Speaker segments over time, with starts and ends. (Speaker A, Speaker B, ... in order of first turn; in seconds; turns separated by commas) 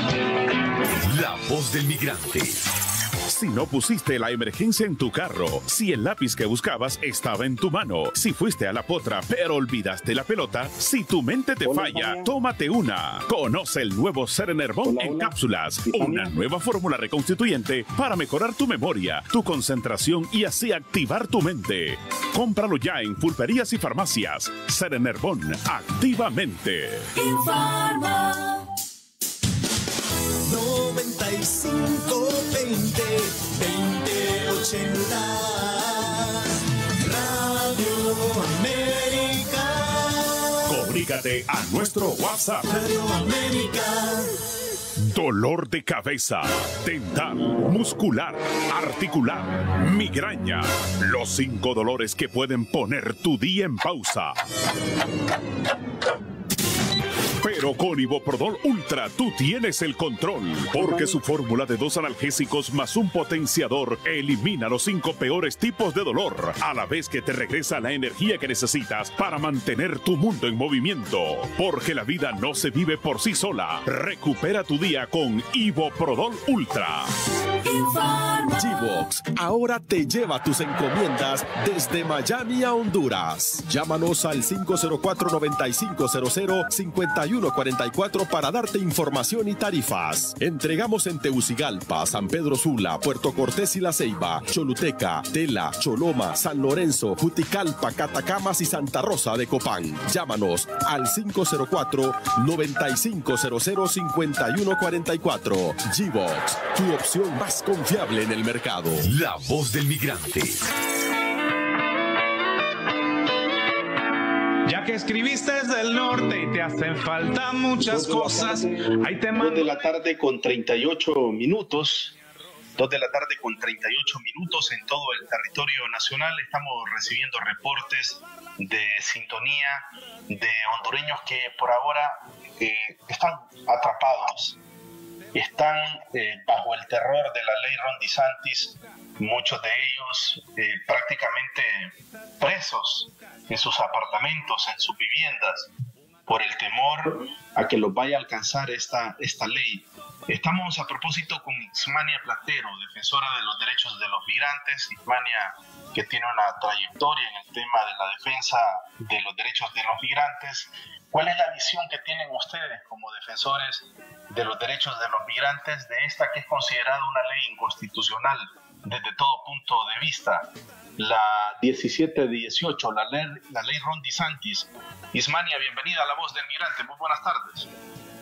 Speaker A: 0.9-2.6, Speaker A: 3.3-27.1, Speaker B: 11.6-12.3, Speaker B: 14.8-16.4, Speaker C: 27.3-28.6, Speaker C: 30.4-36.5, Speaker C: 37.0-40.5, Speaker A: 40.7-42.7, Speaker C: 42.7-44.4, Speaker A: 45.0-54.3, Speaker A: 57.4-77.1, Speaker C: 77.9-110.6, Speaker D: 114.7-119.7, Speaker B: 117.8-118.7, Speaker B: 119.3-122.2, Speaker B: 122.8-134.6, Speaker B: 135.3-145.7, Speaker B: 146.3-177.7